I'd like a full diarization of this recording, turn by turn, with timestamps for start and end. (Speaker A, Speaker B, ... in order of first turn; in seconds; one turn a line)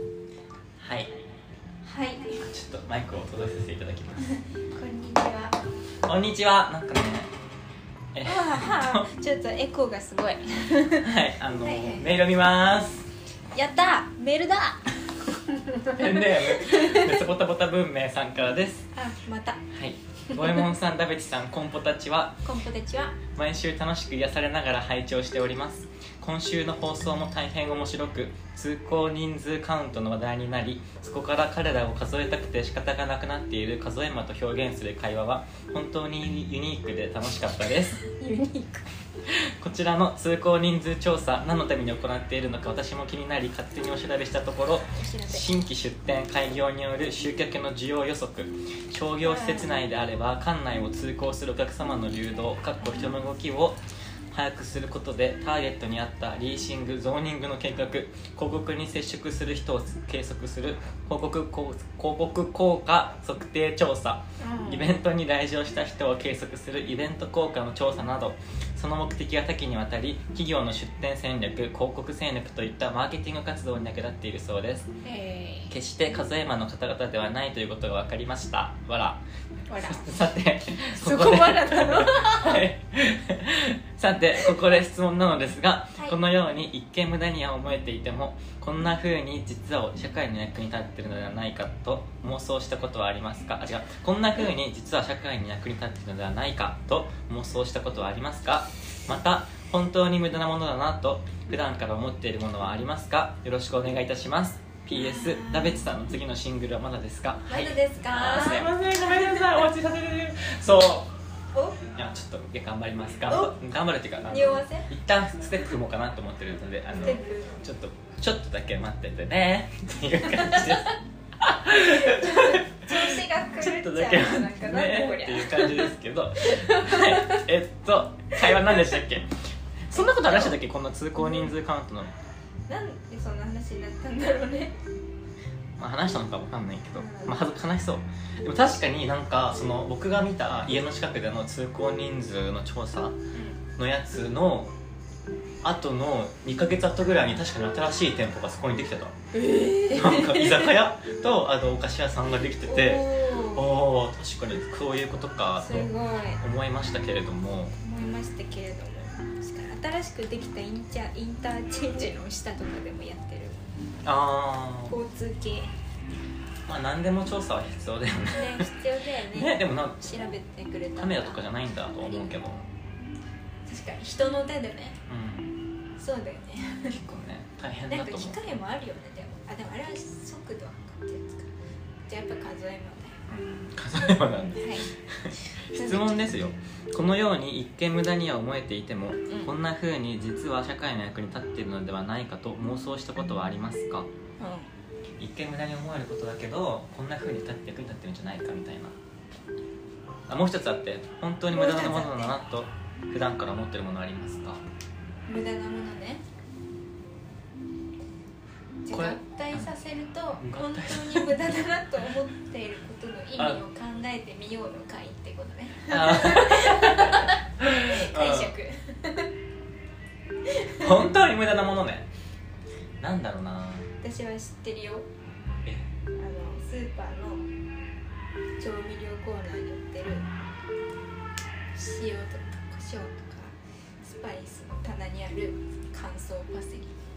Speaker A: 0.8-1.1
Speaker B: 1.8-2.4
Speaker A: 2.4-4.3
Speaker B: 4.7-5.6
Speaker A: 6.0-7.3
Speaker A: 8.1-9.1
Speaker B: 8.2-12.2
Speaker A: 11.0-13.1
Speaker B: 13.5-17.2
Speaker A: 15.9-18.9
Speaker B: 18.9-19.6
Speaker A: 19.7-22.4
Speaker B: 20.3-20.6
Speaker B: 22.4-23.2
Speaker A: 23.3-38.0
Speaker B: 38.0-38.9
Speaker A: 39.3-53.8
Speaker B: 44.9-45.5
Speaker B: 49.2-49.8
Speaker B: 52.8-53.1
Speaker A: 54.3-74.9
Speaker B: 64.4-64.9
Speaker B: 75.0-75.7
Speaker A: 75.7-79.2
Speaker B: 79.7-80.2
Speaker A: 79.7-111.1
Speaker B: 80.9-82.6
Speaker B: 104.9-105.9
Speaker B: 107.5-109.7
Speaker B: 111.5-111.8
Speaker A: 112.0-132.1
Speaker B: 113.3-113.6
Speaker B: 114.3-114.9
Speaker B: 116.9-117.6
Speaker B: 121.8-127.4
Speaker B: 128.4-129.0
Speaker B: 129.9-130.6
Speaker B: 131.2-131.5
Speaker B: 132.7-134.8
Speaker A: 135.8-143.2
Speaker B: 136.9-137.4
Speaker B: 143.3-143.6
Speaker A: 143.8-144.7
Speaker A: 145.6-149.1
Speaker B: 149.3-150.8
Speaker A: 149.9-157.8
Speaker B: 152.7-153.8
Speaker B: 155.6-156.4
Speaker B: 157.8-163.6
Speaker A: 164.0-165.0
Speaker B: 164.9-165.7
Speaker A: 166.7-168.7
Speaker B: 168.3-172.7
Speaker A: 169.3-170.3
Speaker A: 170.9-172.6
Speaker B: 173.7-175.0
Speaker A: 175.1-175.6
Speaker B: 176.0-177.0
Speaker A: 176.9-178.4
Speaker B: 177.9-181.5
Speaker B: 182.1-183.2
Speaker A: 183.3-194.1
Speaker B: 184.6-186.2
Speaker B: 194.4-194.7
Speaker A: 195.2-198.9
Speaker A: 200.3-204.6
Speaker B: 201.5-202.4
Speaker B: 205.3-206.2
Speaker B: 208.8-219.3
Speaker A: 208.9-209.7
Speaker A: 210.4-211.4
Speaker A: 215.9-218.5
Speaker B: 220.5-220.9
Speaker A: 220.8-222.1
Speaker A: 223.0-223.9
Speaker B: 224.0-225.1
Speaker B: 226.2-227.5
Speaker B: 228.6-230.3
Speaker B: 231.8-236.9